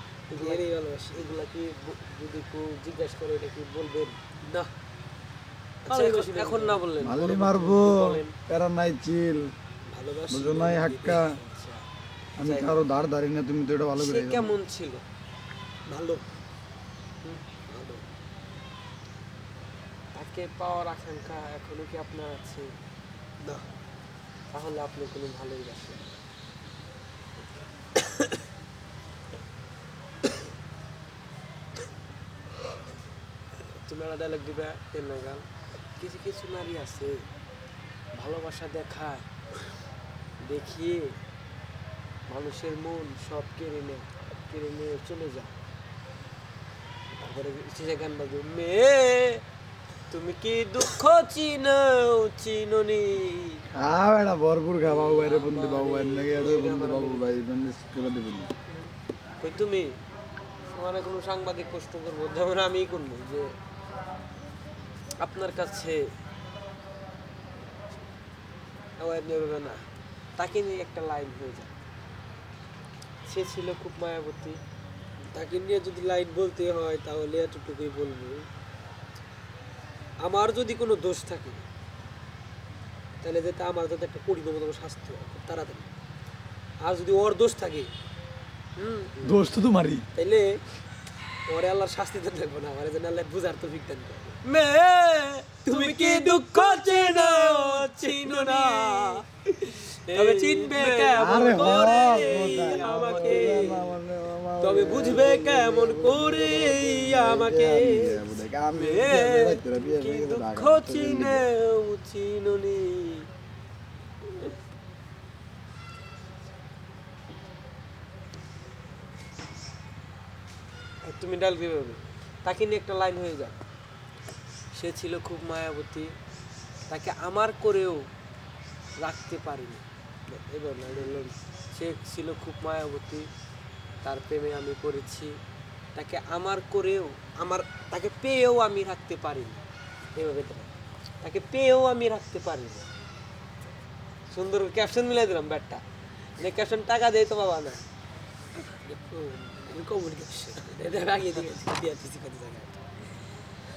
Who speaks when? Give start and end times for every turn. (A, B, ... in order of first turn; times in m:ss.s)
0:00.3-0:01.3 A
0:00.4-0:00.6 B
0:01.2-0:04.2 B
0:05.9-0:06.8 A
0:05.9-0:08.3 B
0:07.0-0:09.4 C
0:09.9-0:11.4 A
0:10.3-0:11.3 C
0:11.5-0:11.8 B
0:12.4-0:14.5 C
0:14.0-0:15.0 B
0:15.9-0:16.2 A
0:17.7-0:18.0 A
0:20.2-0:22.7 B
0:24.5-0:26.2 B
0:33.6-0:35.4 B
0:36.0-0:37.2 B
0:38.1-0:39.3 B
0:40.4-0:41.2 B
0:42.3-0:45.5 B
0:47.1-0:49.4 B
0:50.1-0:53.6 B
0:53.8-0:58.5 C
0:54.8-0:57.4 B
0:59.4-0:59.9 B
1:00.7-1:03.5 B
1:05.2-1:06.1 B
1:09.0-1:09.8 B
1:10.4-1:11.7 B
1:13.3-1:14.6 B
1:15.3-1:18.4 A
1:20.2-1:21.6 A
1:23.2-1:25.9 A
1:26.8-1:27.9 A
1:28.8-1:29.2 B
1:29.2-1:30.0 C
1:30.2-1:30.5 A
1:31.5-1:34.4 A
1:34.4-1:43.8 B
1:35.6-1:39.2 A
1:40.1-1:44.0 A
1:41.2-1:51.4 C
1:44.6-1:48.2 A
1:44.8-1:45.5 B
1:48.7-1:53.3 B
2:01.0-2:03.6 B
2:04.8-2:06.1 B
2:06.9-2:08.1 B
2:09.0-2:09.8 B
2:10.3-2:11.3 A
2:10.8-2:13.3 B
2:14.0-2:15.4 B
2:16.0-2:19.6 B
2:20.2-2:20.7 B
2:21.2-2:22.8 B
2:24.3-2:25.8 B
2:26.4-2:27.8 B
2:28.8-2:32.8 A